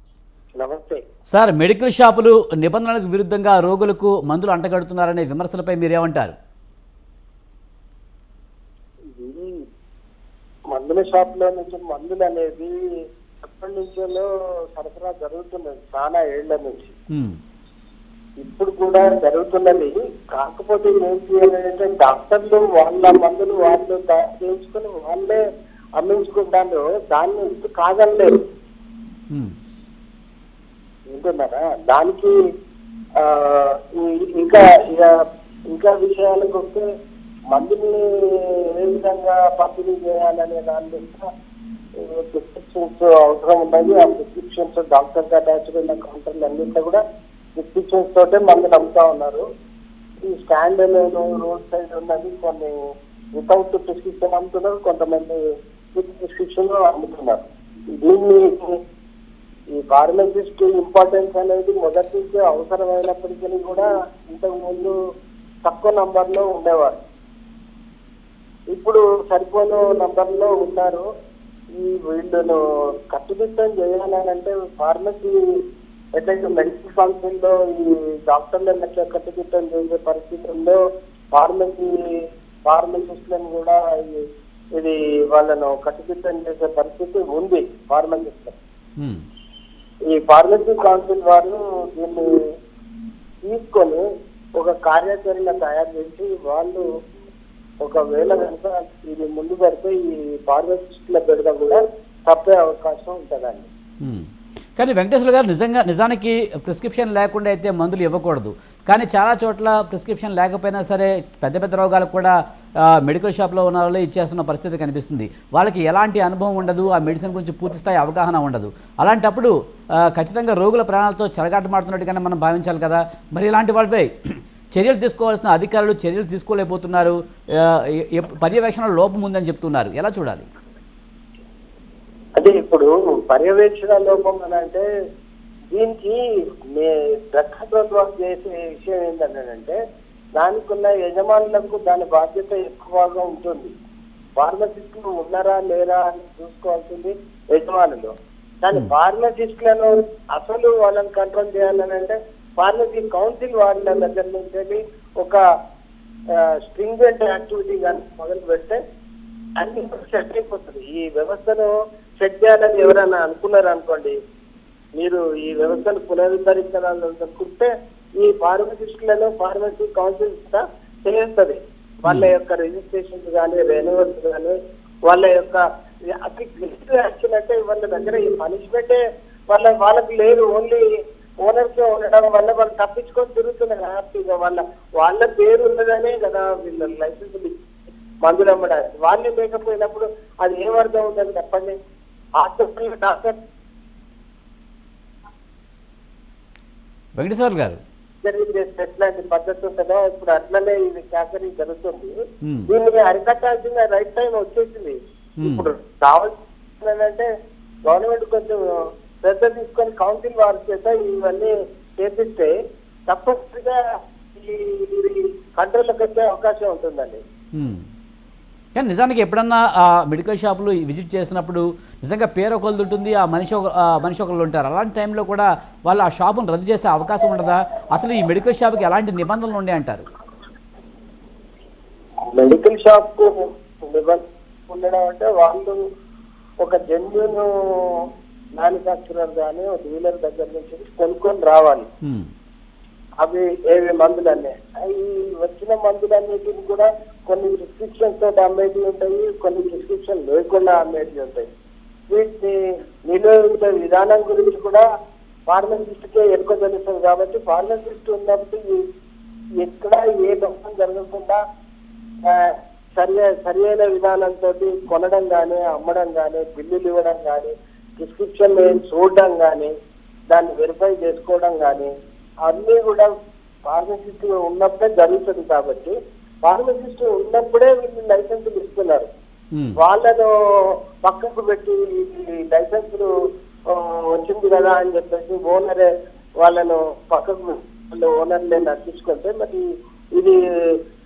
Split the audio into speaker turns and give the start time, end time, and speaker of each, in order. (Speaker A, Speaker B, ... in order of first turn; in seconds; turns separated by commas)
Speaker A: 0.6-1.0, Speaker B: 1.3-6.3, Speaker A: 9.2-9.7, Speaker A: 10.7-12.7, Speaker A: 13.4-16.9, Speaker B: 17.1-17.4, Speaker A: 18.4-25.4, Speaker A: 26.0-28.4, Speaker A: 31.1-32.4, Speaker A: 33.2-35.1, Speaker A: 35.7-36.9, Speaker A: 37.5-41.3, Speaker A: 42.0-47.0, Speaker A: 47.6-49.5, Speaker A: 50.2-52.8, Speaker A: 53.4-55.4, Speaker A: 56.0-57.5, Speaker A: 58.0-58.8, Speaker A: 59.7-64.9, Speaker A: 65.7-67.0, Speaker A: 68.7-71.1, Speaker A: 71.8-75.4, Speaker A: 76.2-80.8, Speaker A: 81.3-81.9, Speaker A: 82.7-84.2, Speaker A: 84.8-88.6, Speaker A: 90.1-92.3, Speaker A: 93.4-94.0, Speaker A: 94.6-96.8, Speaker A: 97.8-103.7, Speaker B: 104.0-112.3, Speaker B: 112.9-119.5, Speaker B: 120.0-124.1, Speaker B: 124.7-130.5, Speaker A: 132.4-134.9, Speaker A: 135.7-136.2, Speaker A: 136.8-139.8, Speaker A: 140.4-143.7, Speaker A: 144.4-148.1, Speaker A: 148.6-155.4, Speaker A: 156.3-158.8, Speaker A: 159.6-164.1, Speaker A: 165.0-174.6, Speaker A: 175.1-175.6, Speaker A: 176.2-180.8, Speaker A: 181.4-187.6, Speaker A: 188.2-191.7, Speaker A: 192.4-193.4, Speaker B: 197.2-197.8, Speaker A: 198.2-207.3, Speaker B: 202.4-202.7, Speaker B: 205.4-205.7, Speaker A: 207.9-208.6, Speaker A: 209.2-212.5, Speaker A: 213.1-213.8, Speaker A: 214.3-217.2, Speaker B: 217.6-217.8, Speaker B: 218.8-230.1, Speaker A: 232.3-235.8, Speaker A: 236.6-238.0, Speaker A: 238.6-241.9, Speaker B: 242.0-242.3, Speaker A: 243.2-251.5, Speaker A: 252.1-254.8, Speaker A: 255.5-258.8, Speaker A: 259.6-261.4, Speaker A: 262.2-269.7, Speaker A: 270.3-271.9, Speaker A: 272.4-273.1, Speaker A: 273.7-279.1, Speaker A: 279.8-280.3, Speaker A: 281.0-283.1, Speaker A: 283.7-289.7, Speaker A: 290.2-290.8